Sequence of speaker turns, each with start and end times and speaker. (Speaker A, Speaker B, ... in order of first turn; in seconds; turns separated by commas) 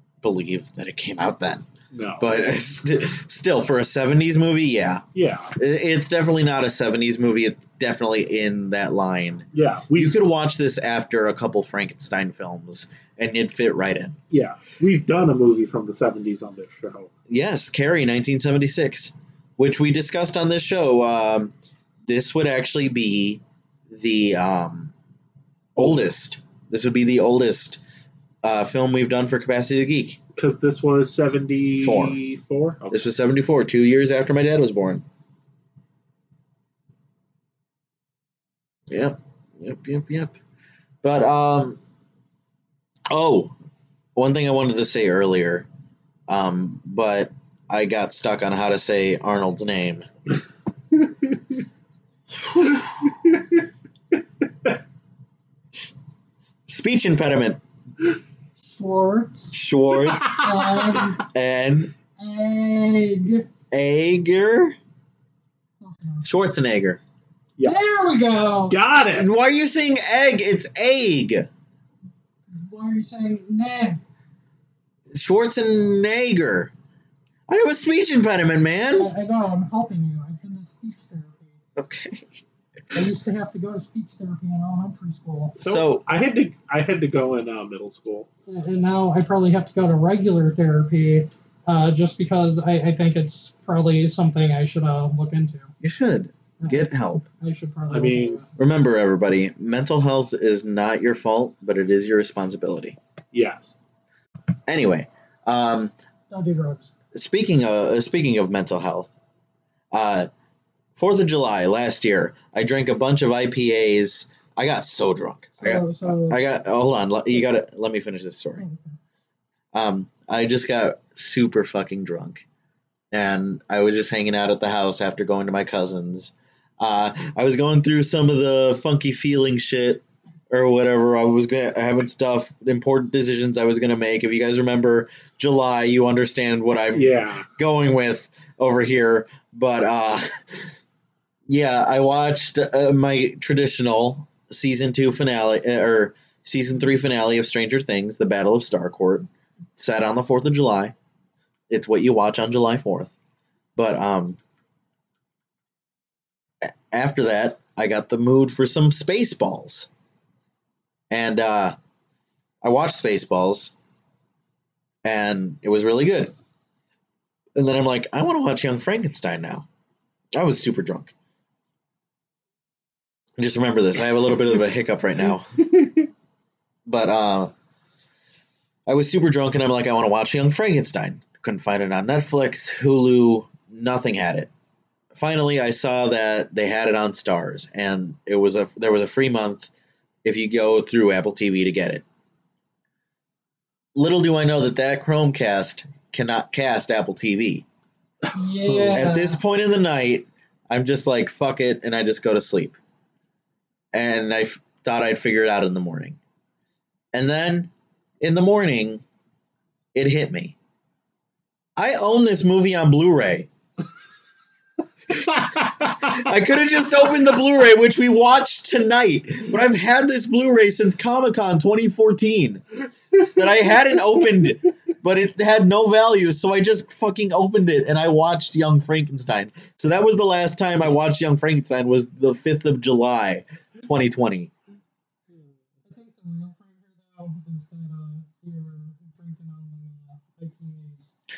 Speaker A: 0.2-1.7, Speaker B: 1.9-2.3, Speaker A: 2.2-5.0, Speaker B: 5.2-5.5, Speaker A: 5.6-14.2, Speaker B: 9.5-10.2, Speaker B: 14.3-17.1, Speaker A: 17.3-21.5, Speaker A: 22.1-24.9, Speaker A: 25.8-27.8, Speaker A: 28.4-30.2, Speaker B: 30.4-33.1, Speaker A: 31.8-32.2, Speaker A: 32.9-35.0, Speaker A: 38.9-40.4, Speaker A: 41.0-41.8, Speaker A: 43.1-43.5, Speaker A: 44.2-45.7, Speaker A: 46.3-50.1, Speaker B: 50.9-51.5, Speaker B: 52.7-53.6, Speaker A: 56.7-57.6, Speaker C: 58.7-59.6, Speaker A: 59.5-60.5, Speaker B: 60.1-61.2, Speaker C: 60.2-61.2, Speaker A: 61.3-61.9, Speaker C: 62.2-63.5, Speaker A: 63.7-64.8, Speaker C: 65.8-66.3, Speaker A: 66.2-67.0, Speaker B: 67.6-68.1, Speaker C: 67.6-68.8, Speaker B: 68.7-69.3, Speaker A: 69.1-71.5, Speaker C: 72.5-74.0, Speaker A: 75.1-76.7, Speaker A: 77.5-79.1, Speaker C: 79.0-81.6, Speaker A: 81.8-82.3, Speaker C: 82.9-85.6, Speaker B: 85.6-88.3, Speaker A: 85.6-86.0, Speaker C: 88.5-95.7, Speaker A: 95.8-97.2, Speaker C: 96.6-98.5, Speaker B: 97.9-98.4, Speaker A: 98.6-103.0, Speaker B: 103.3-103.8, Speaker A: 104.7-105.9, Speaker C: 106.3-106.9, Speaker A: 107.1-109.1, Speaker A: 109.9-110.3, Speaker A: 111.0-118.7, Speaker C: 115.6-116.4, Speaker C: 118.6-118.9, Speaker A: 119.7-122.4, Speaker A: 123.1-140.8, Speaker B: 136.9-137.5, Speaker A: 141.5-150.9, Speaker A: 151.7-153.2, Speaker A: 153.8-154.4, Speaker A: 156.7-159.9, Speaker A: 161.1-161.8, Speaker A: 162.6-163.7, Speaker A: 165.0-166.3, Speaker A: 167.6-169.7, Speaker A: 170.4-171.1, Speaker A: 173.4-175.5, Speaker B: 175.7-176.1, Speaker A: 176.9-177.5, Speaker A: 178.9-184.5, Speaker A: 185.1-189.7, Speaker A: 190.2-192.0, Speaker A: 193.9-197.7, Speaker C: 198.3-199.4, Speaker B: 198.7-199.1, Speaker A: 198.9-202.8, Speaker A: 203.9-206.2, Speaker A: 207.1-209.0, Speaker A: 209.9-210.6, Speaker A: 211.8-213.5, Speaker A: 215.3-222.6, Speaker A: 223.2-234.5, Speaker C: 235.8-241.1